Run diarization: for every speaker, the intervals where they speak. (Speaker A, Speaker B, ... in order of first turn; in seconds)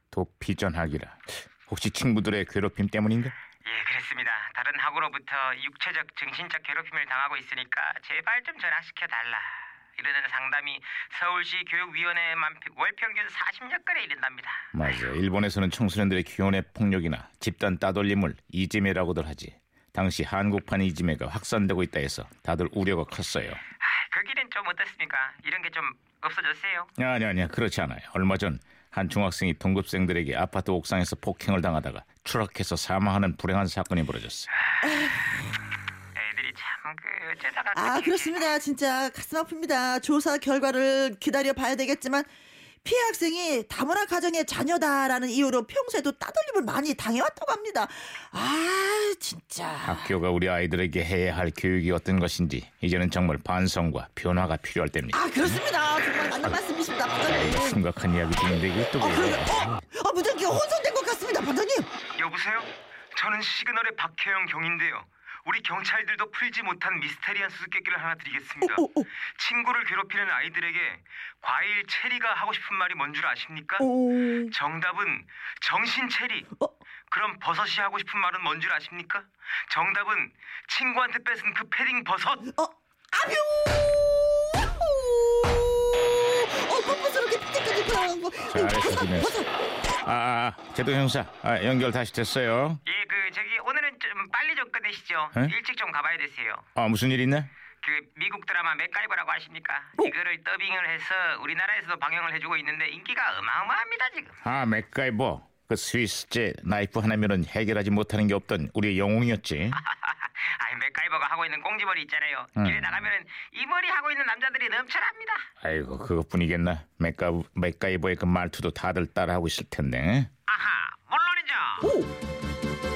Speaker A: 0.1-3.3, 14.7-23.6, 27.0-34.5, 49.8-55.6, 57.2-59.8, 88.4-89.4, 90.0-92.8, 96.7-97.5, 104.4-109.8, 112.6-113.0, 115.6-120.3
Speaker B: 3.6-15.0, 23.8-26.9, 36.1-38.5, 62.1-73.9, 74.5-76.5, 77.1-82.5, 92.8-96.6, 97.8-104.4, 109.8-115.5, 120.5-121.9
Speaker C: 34.8-35.2, 37.7-42.3, 42.8-50.1, 55.1-57.8, 58.9-61.9, 68.6-69.1, 73.8-74.5, 82.5-89.5, 121.8-122.1